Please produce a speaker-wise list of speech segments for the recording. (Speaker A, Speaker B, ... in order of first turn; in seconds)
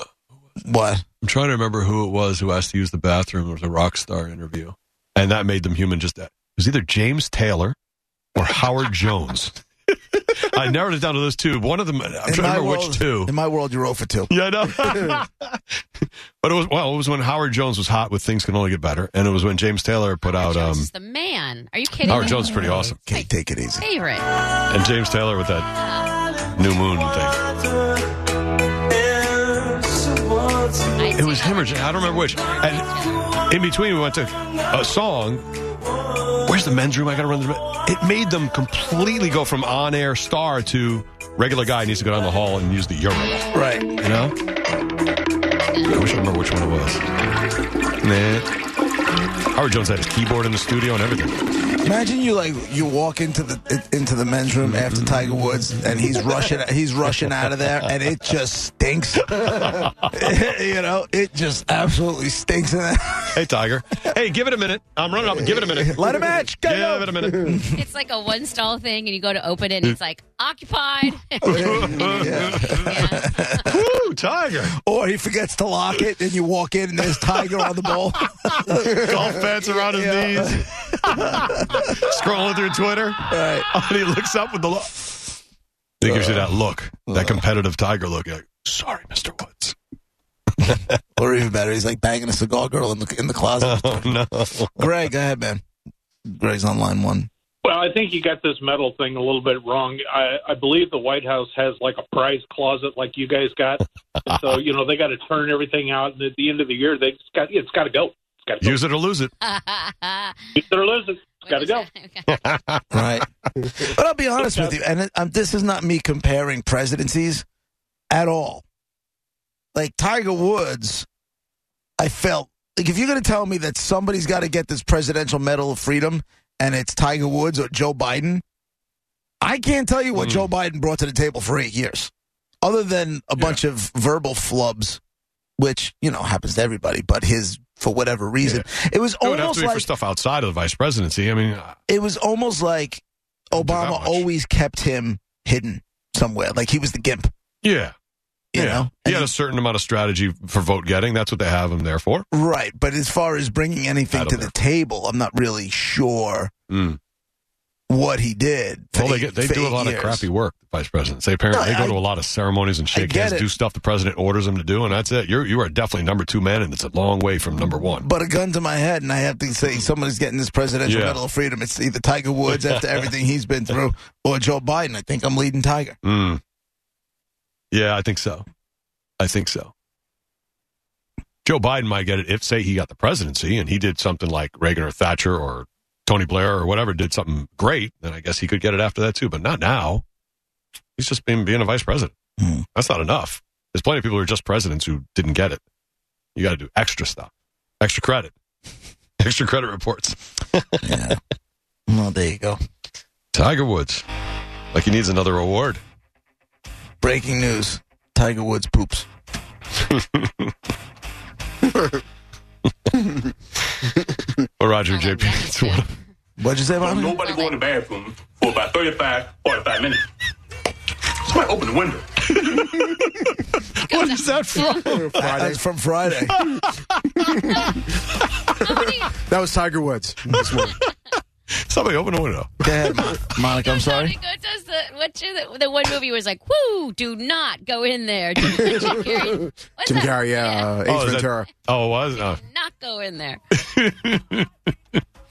Speaker A: 0.6-1.0, 12.2-14.3, 23.0-23.8, 43.5-43.9, 51.8-63.4, 65.5-67.8, 71.5-73.8, 74.7-82.0, 83.3-83.7, 86.0-86.5, 87.1-87.4, 91.2-94.2, 94.8-95.6, 96.3-97.3, 112.9-113.3, 113.8-117.4, 118.1-118.6, 119.7-121.0, 122.0-128.4, 129.4-132.1, 132.6-135.0, 135.6-139.9, 141.9-147.3, 148.5-149.3, 152.3-156.5, 157.9-160.3, 161.5-162.0, 162.9-163.5, 168.0-175.9, 192.4-192.7, 200.8-201.2, 201.9-202.6, 207.0-209.1, 216.4-217.2, 225.2-226.3, 232.6-234.1
Speaker B: 1.2-7.8, 8.3-9.6, 10.1-13.3, 14.3-20.9, 22.0-23.0, 24.7-25.7, 26.5-27.5, 31.1-35.5, 36.4-44.4, 45.8-47.0, 48.0-48.5, 49.5-51.4, 54.6-55.4, 59.2-60.1, 63.3-67.6, 71.4-74.8, 78.2-85.4, 86.0-89.7, 90.6-90.9, 93.6-95.0, 104.2-104.5, 108.6-109.3, 112.3-113.0, 130.1-130.5, 139.2-141.8, 143.5-144.2, 147.6-147.9, 148.6-152.2, 154.1-154.5, 156.7-157.0, 158.9-168.1, 170.8-171.2, 172.5-172.8, 176.0-176.4, 177.7-178.4, 179.2-179.7, 181.4-190.0, 191.0-192.1, 192.7-195.6, 196.3-198.3, 199.2-201.1, 203.3-204.0, 204.7-205.8, 209.9-210.5, 213.8-215.9, 222.5-225.3, 226.3-227.4, 228.2-228.5, 231.5-232.6, 240.8-242.4, 243.5-245.0
Speaker C: 20.2-23.3, 23.8-24.3, 25.7-26.2, 30.9-33.3, 67.7-73.7, 109.4-110.5, 111.4-112.5, 214.8-215.9, 217.2-217.6, 223.8-225.0, 227.3-227.8, 228.6-229.2, 233.5-240.8, 242.2-243.4
Speaker D: 97.6-108.8, 110.6-111.8
Speaker E: 216.8-220.0, 221.2-222.8
Speaker F: 224.9-225.6, 227.2-227.9, 228.6-230.8, 238.5-241.5